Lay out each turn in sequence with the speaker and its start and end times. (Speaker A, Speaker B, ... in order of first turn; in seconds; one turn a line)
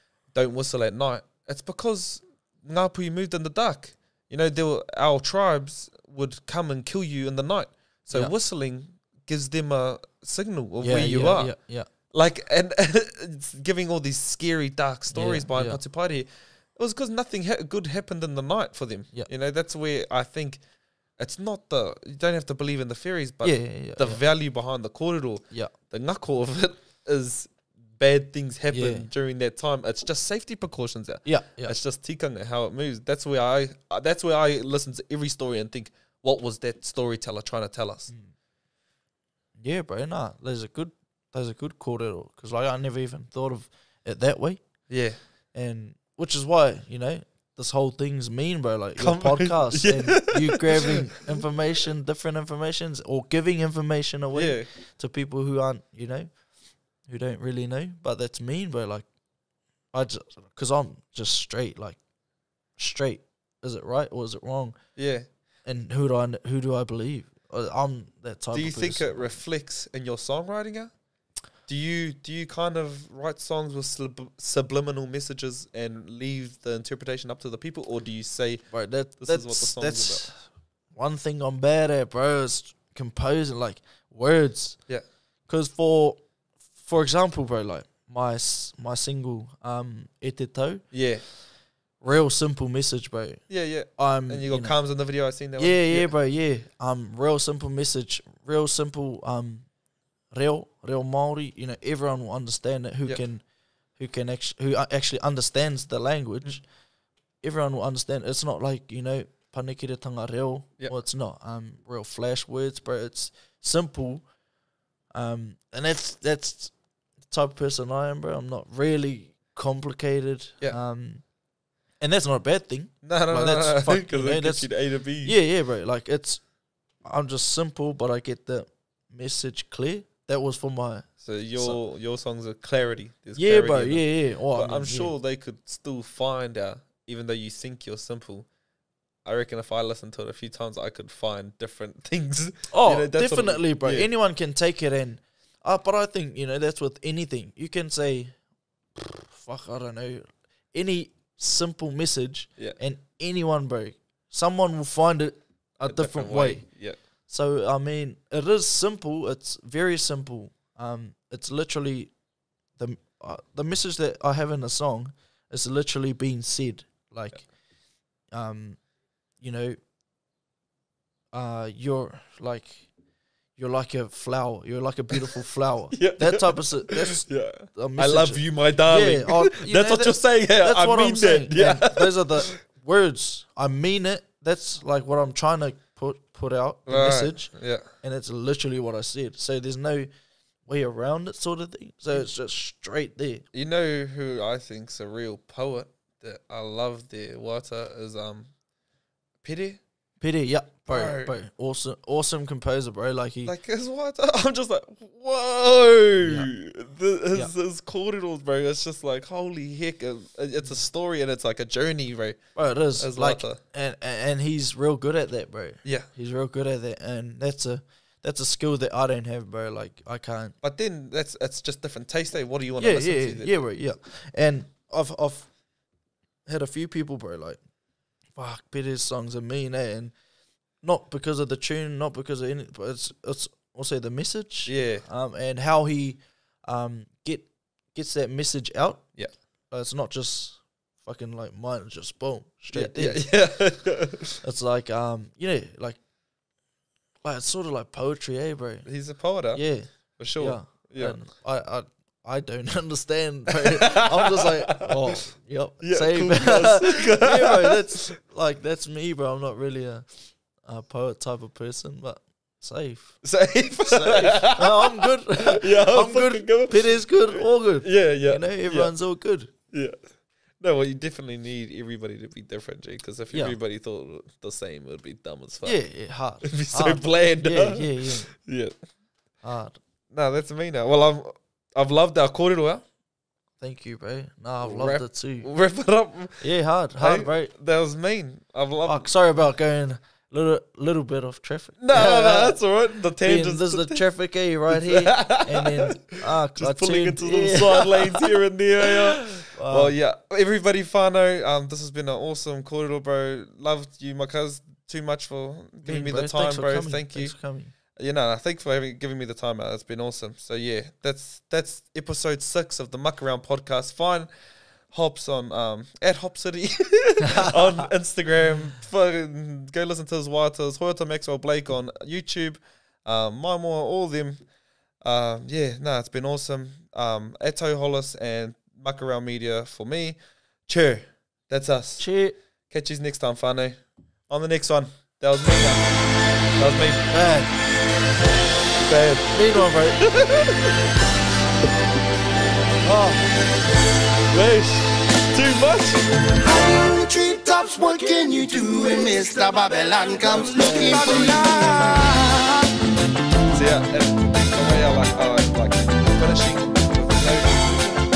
Speaker A: 0.3-11.5
Speaker B: 10.8-11.9
Speaker A: 12.1-20.6
Speaker B: 15.1-15.8
Speaker A: 21.2-38.1
Speaker B: 23.4-24.2
Speaker B: 28.7-29.1
Speaker B: 31.2-31.8
Speaker B: 39.6-44.6
Speaker A: 44.9-45.2
Speaker B: 45.5-56.3
Speaker A: 49.0-51.3
Speaker A: 54.3-54.7
Speaker B: 57.1-59.1
Speaker B: 59.9-62.0
Speaker B: 62.8-64.8
Speaker A: 65.0-65.3
Speaker B: 65.7-69.3
Speaker A: 68.5-70.9
Speaker A: 71.7-78.7
Speaker B: 78.7-84.8
Speaker A: 79.2-80.2
Speaker B: 85.5-86.2
Speaker B: 86.8-90.8
Speaker A: 90.9-91.2
Speaker B: 92.0-93.4
Speaker A: 93.5-96.1
Speaker B: 94.0-94.8
Speaker B: 95.6-99.7
Speaker B: 100.3-103.4
Speaker B: 104.0-106.6
Speaker B: 107.4-114.2
Speaker B: 115.1-116.7
Speaker B: 117.3-121.2
Speaker B: 122.0-124.7
Speaker A: 123.0-125.4
Speaker B: 125.2-126.4
Speaker B: 127.0-131.8
Speaker A: 131.2-138.5
Speaker B: 133.4-135.1
Speaker A: 139.2-144.1
Speaker B: 142.7-148.3
Speaker B: 149.0-156.7
Speaker A: 155.8-157.0
Speaker B: 157.3-162.1
Speaker B: 162.8-167.5
Speaker B: 168.3-168.8
Speaker B: 169.4-169.8
Speaker B: 171.3-172.9
Speaker B: 173.6-190.1
Speaker A: 175.9-182.6
Speaker A: 186.9-187.9
Speaker B: 190.7-193.4
Speaker A: 193.5-198.5
Speaker A: 199.4-199.8
Speaker B: 200.2-203.5
Speaker A: 200.9-201.3
Speaker A: 203.4-212.4
Speaker B: 206.2-206.5
Speaker B: 212.6-220.6
Speaker A: 213.0-213.6
Speaker A: 220.6-223.5
Speaker B: 222.8-225.5
Speaker B: 226.5-227.6
Speaker B: 228.4-230.1
Speaker B: 230.8-239.0
Speaker A: 234.7-235.1
Speaker B: 239.7-243.3
Speaker A: 242.7-244.4
Speaker B: 244.4-246.0
Speaker B: 247.2-248.9
Speaker A: 248.9-249.6
Speaker B: 249.5-260.1
Speaker A: 250.2-251.2
Speaker A: 253.5-255.2
Speaker A: 255.8-258.1
Speaker B: 260.6-263.2
Speaker A: 263.2-268.9
Speaker B: 263.9-269.5
Speaker A: 269.7-270.0
Speaker A: 270.6-275.8
Speaker B: 273.3-273.6
Speaker B: 275.6-278.3
Speaker A: 276.4-278.7
Speaker B: 279.4-279.8
Speaker A: 280.1-282.8
Speaker B: 283.6-285.5
Speaker A: 284.6-289.1
Speaker B: 286.4-287.5
Speaker B: 288.9-292.6
Speaker A: 291.8-294.0
Speaker B: 293.2-298.3
Speaker A: 294.7-307.3
Speaker B: 298.9-300.0
Speaker B: 305.9-307.7
Speaker A: 308.0-314.3
Speaker A: 314.9-324.4
Speaker B: 317.2-317.9
Speaker A: 325.0-332.1
Speaker B: 332.0-332.4
Speaker A: 332.7-335.9
Speaker A: 336.6-337.1
Speaker B: 337.1-337.5
Speaker A: 338.8-340.8
Speaker B: 339.3-340.0
Speaker B: 342.8-343.2
Speaker A: 344.3-346.0
Speaker C: 346.4-352.6
Speaker A: 350.3-352.0
Speaker B: 351.3-352.0
Speaker A: 353.5-358.0